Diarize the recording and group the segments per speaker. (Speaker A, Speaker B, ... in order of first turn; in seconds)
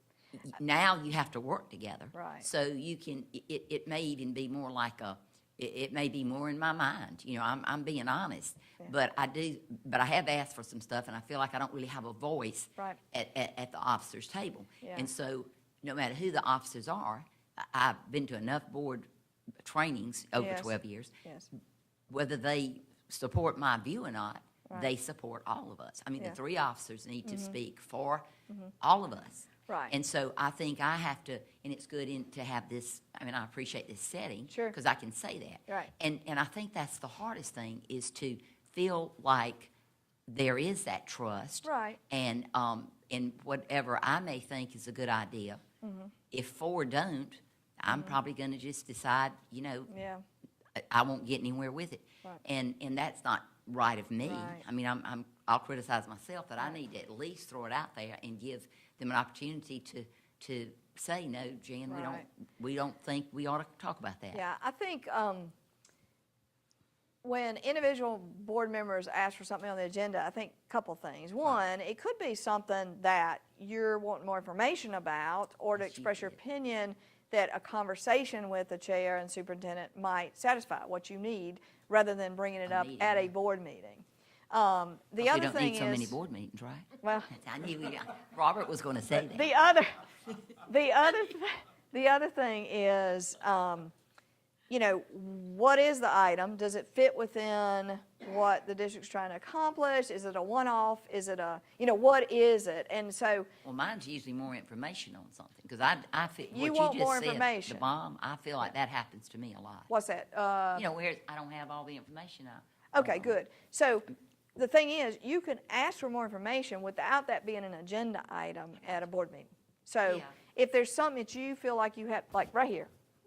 Speaker A: 0.5-19.1, 19.6-21.1, 22.1-28.2, 28.8-39.7, 40.3-45.6, 46.3-49.9, 50.9-64.4, 75.8-76.4, 82.7-83.3, 85.2-89.5, 103.6-109.9, 110.8-113.4, 120.0-120.4
Speaker B: 2.1-2.5, 14.8-15.1, 20.4-20.7, 27.2-27.6, 29.7-29.9, 41.6-42.0, 45.8-46.1, 47.9-48.2, 49.9-50.2, 54.2-54.6, 61.9-62.2, 64.3-65.5, 67.2-86.1, 87.0-87.3, 89.2-90.0, 90.6-93.9, 94.7-103.5, 106.5-107.8, 109.9-110.9, 112.9-122.9